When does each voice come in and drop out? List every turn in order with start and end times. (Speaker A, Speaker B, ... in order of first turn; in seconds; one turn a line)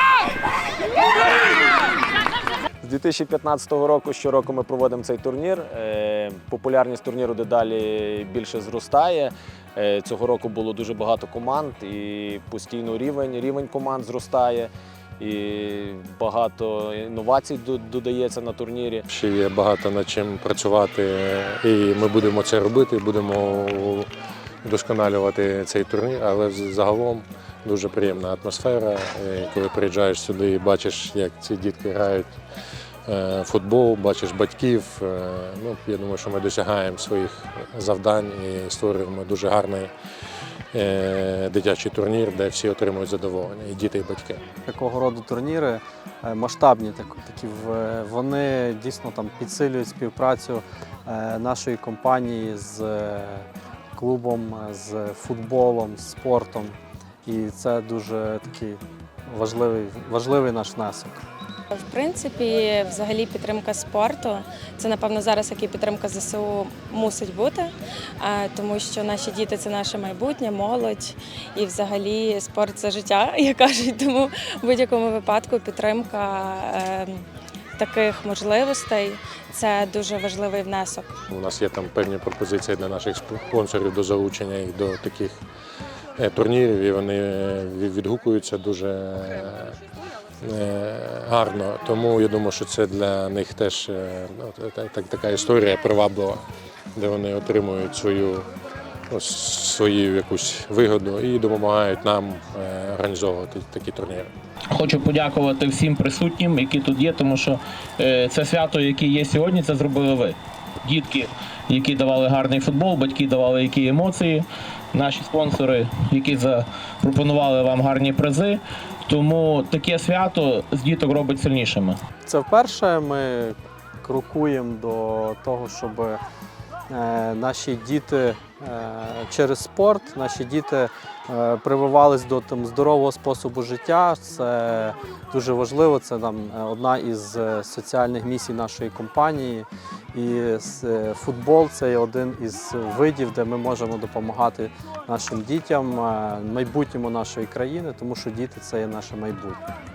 Speaker A: 2.8-19.1
Speaker B: 19.1-24.1
Speaker B: 24.6-32.3
Speaker B: 33.1-39.9
Speaker B: 40.7-44.4
Speaker C: 44.7-56.8
Speaker C: 57.3-61.2
Speaker D: 61.7-77.2
Speaker D: 77.8-81.1
Speaker B: 81.3-85.4
Speaker B: 86.2-89.8
Speaker B: 90.4-96.4
Speaker B: 97.0-98.5
Speaker B: 99.1-104.3
Speaker E: 104.7-122.0
Speaker C: 122.2-126.2
Speaker C: 126.9-149.6